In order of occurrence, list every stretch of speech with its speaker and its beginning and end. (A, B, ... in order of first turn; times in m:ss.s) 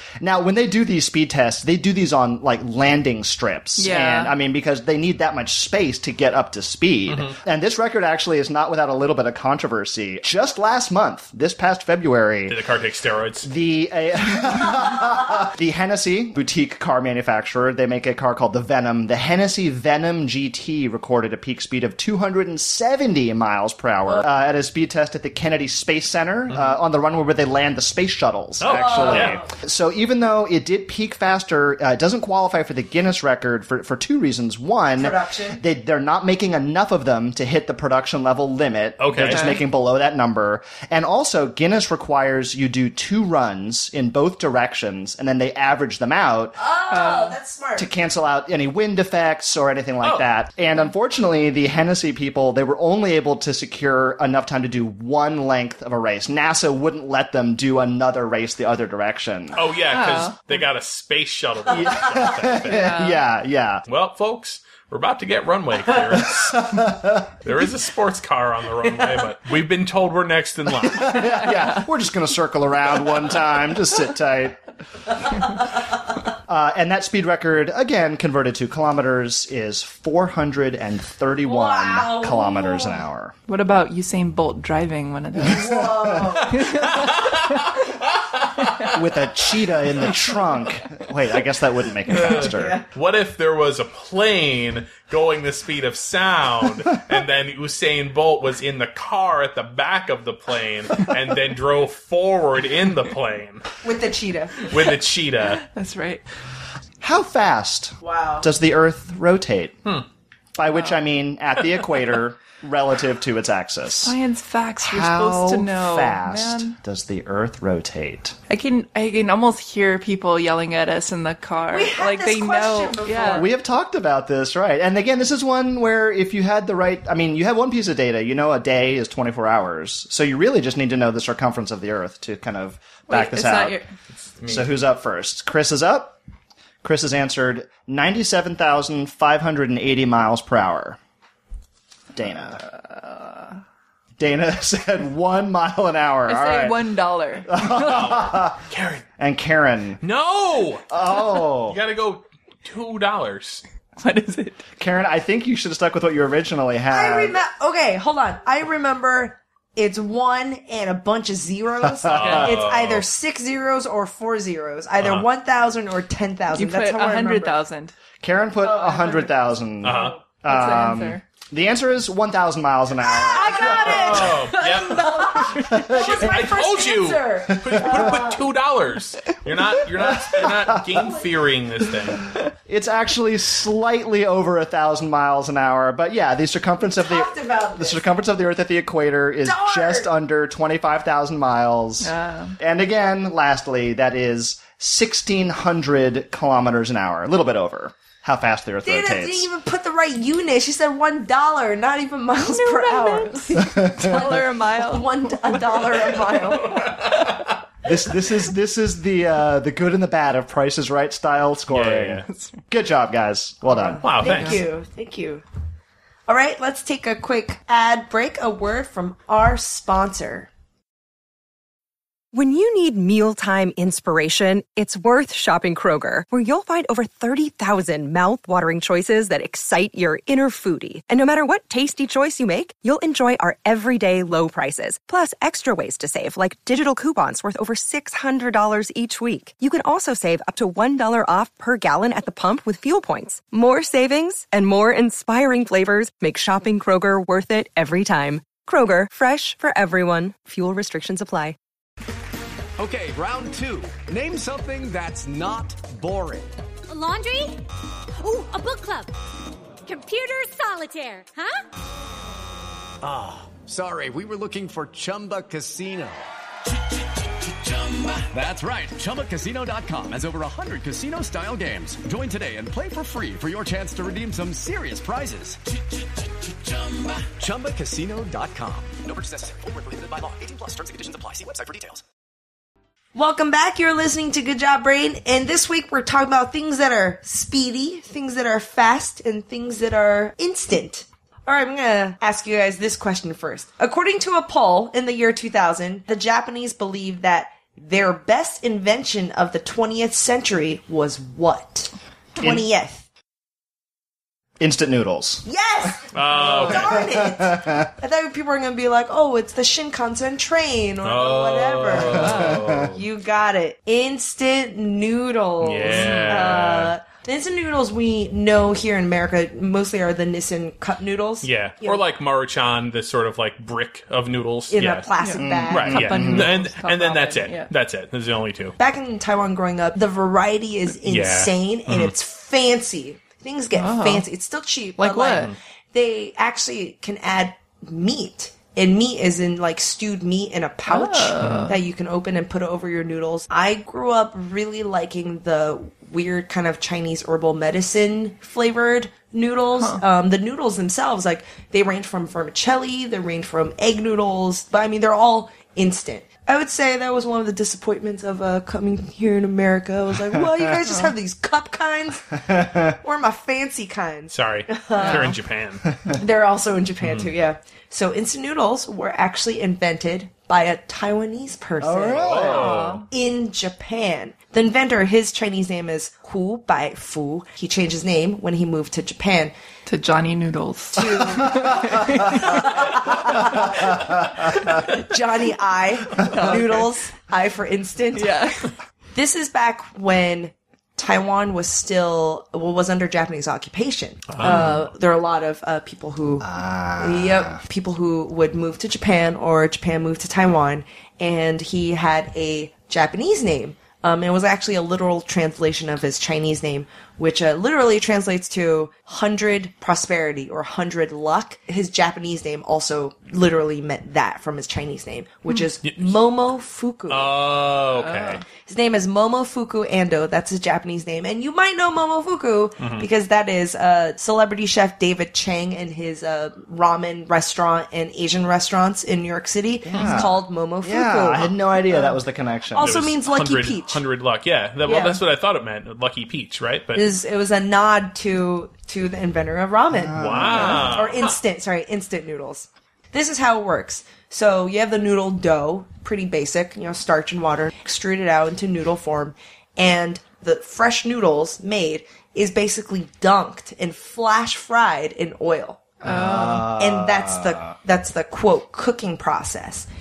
0:00.2-0:12.6 A
0:03.8-0:04.3 B
0:07.1-0:07.4 C
0:12.5-0:13.5 C
0:13.4-0:46.6 A
0:26.5-0:26.8 C
0:28.6-0:29.4 C
0:28.6-0:29.5 D
0:35.0-0:35.6 D
0:39.0-0:39.6 C
0:39.3-0:39.6 B
0:46.6-0:47.9 D
0:46.9-0:47.4 B
0:47.8-0:59.6 A
0:50.0-0:50.3 C
0:59.6-1:02.9 C
0:59.9-1:00.5 B
1:01.7-1:03.8 A
1:02.7-1:03.2 B
1:03.9-1:06.8 C
1:06.1-1:07.3 A
1:07.4-1:11.5 C
1:10.7-1:14.6 A
1:16.5-1:23.3 A
1:21.4-1:23.0 D
1:23.5-1:25.8 B
1:25.4-1:26.4 A
1:25.4-1:26.6 D
1:26.5-1:27.5 B
1:26.9-1:28.9 C
1:28.9-1:32.8 A
1:32.1-1:43.6 C
1:32.4-1:32.9 D
1:43.8-1:44.7 D
1:44.7-1:45.6 C
1:45.5-1:46.2 B
1:47.0-1:49.8 A
1:48.0-1:48.5 D
1:50.6-1:54.2 A
1:54.0-1:56.8 B
1:54.8-1:58.4 A
1:58.5-2:03.5 B
2:01.7-2:03.6 D
2:03.3-2:13.8 A
2:13.1-2:13.9 B
2:14.3-2:14.7 C
2:14.5-2:16.2 A
2:16.8-2:21.0 A
2:22.1-2:22.6 A
2:22.8-2:23.5 B
2:24.2-2:26.9 A
2:26.3-2:27.5 B
2:27.4-2:28.6 A
2:27.7-2:29.0 C
2:29.2-2:30.0 A
2:30.0-2:33.6 C
2:30.9-2:31.8 A
2:34.0-2:34.6 B
2:34.8-2:37.4 A
2:36.9-2:47.6 D
2:41.8-2:42.6 A
2:42.1-2:43.0 C
2:45.0-2:45.3 C
2:46.5-2:48.0 B
2:48.2-2:54.5 A
2:48.7-2:49.2 B
2:49.8-2:50.2 C
2:50.4-2:51.2 B
2:53.0-2:58.4 D
2:53.7-3:02.3 C
2:55.6-2:56.3 A
2:57.5-2:58.1 A
3:00.0-3:01.2 A
3:02.7-3:19.5 A
3:06.9-3:08.0 D
3:09.4-3:10.1 D
3:12.0-3:12.6 B
3:18.8-3:27.0 D
3:22.4-3:25.6 B
3:23.7-3:24.3 A
3:26.7-3:27.4 C
3:27.8-3:34.1 A
3:31.7-3:32.3 C
3:33.7-3:35.4 D
3:34.0-3:34.6 C
3:34.3-3:34.6 B
3:36.3-3:40.5 D
3:42.3-4:11.6 E
4:12.8-4:16.5 F
4:16.9-4:17.6 G
4:18.2-4:19.1 G
4:19.8-4:21.6 G
4:23.0-4:26.3 F
4:28.1-4:35.6 F
4:36.5-4:42.0 F
4:43.1-5:03.0 D
5:02.4-5:02.6 A
5:04.6-5:05.9 A
5:05.4-5:22.0 D
5:06.1-5:07.0 C
5:06.6-5:07.9 A
5:11.0-5:13.0 C
5:12.0-5:12.9 A
5:15.6-5:16.9 C
5:16.0-5:16.6 A
5:21.4-5:25.1 C
5:24.7-5:26.1 D
5:25.2-5:27.7 B
5:25.4-5:26.5 A
5:25.7-5:28.8 C
5:28.8-6:05.4 D
5:31.0-5:32.1 C
5:33.8-5:34.2 B
5:35.0-5:35.5 B
5:40.9-5:41.8 B
5:49.8-5:50.0 B
6:00.3-6:00.6 A
6:02.4-6:03.0 A
6:04.3-6:05.9 C
6:05.0-6:05.4 B
6:06.1-6:19.5 D
6:07.0-6:07.3 C
6:11.8-6:13.0 A
6:12.2-6:13.0 C
6:12.5-6:13.0 B
6:19.9-6:22.8 B
6:21.0-6:28.5 D
6:21.5-6:21.8 A
6:26.2-6:26.8 B
6:28.1-6:28.7 B
6:29.1-6:57.4 D
6:34.3-6:34.8 C
6:34.4-6:34.8 A
6:36.4-6:37.6 A
6:55.8-6:56.2 C
6:57.1-6:58.4 C
6:58.0-6:58.4 B
6:58.5-7:12.2 D
7:02.8-7:03.1 C
7:09.8-7:13.0 A
7:12.7-7:14.0 D
7:12.8-7:17.1 C
7:14.8-7:15.2 D
7:17.0-7:39.9 D
7:19.9-7:21.1 A
7:20.2-7:21.4 C
7:36.0-7:36.7 B
7:36.0-7:37.8 A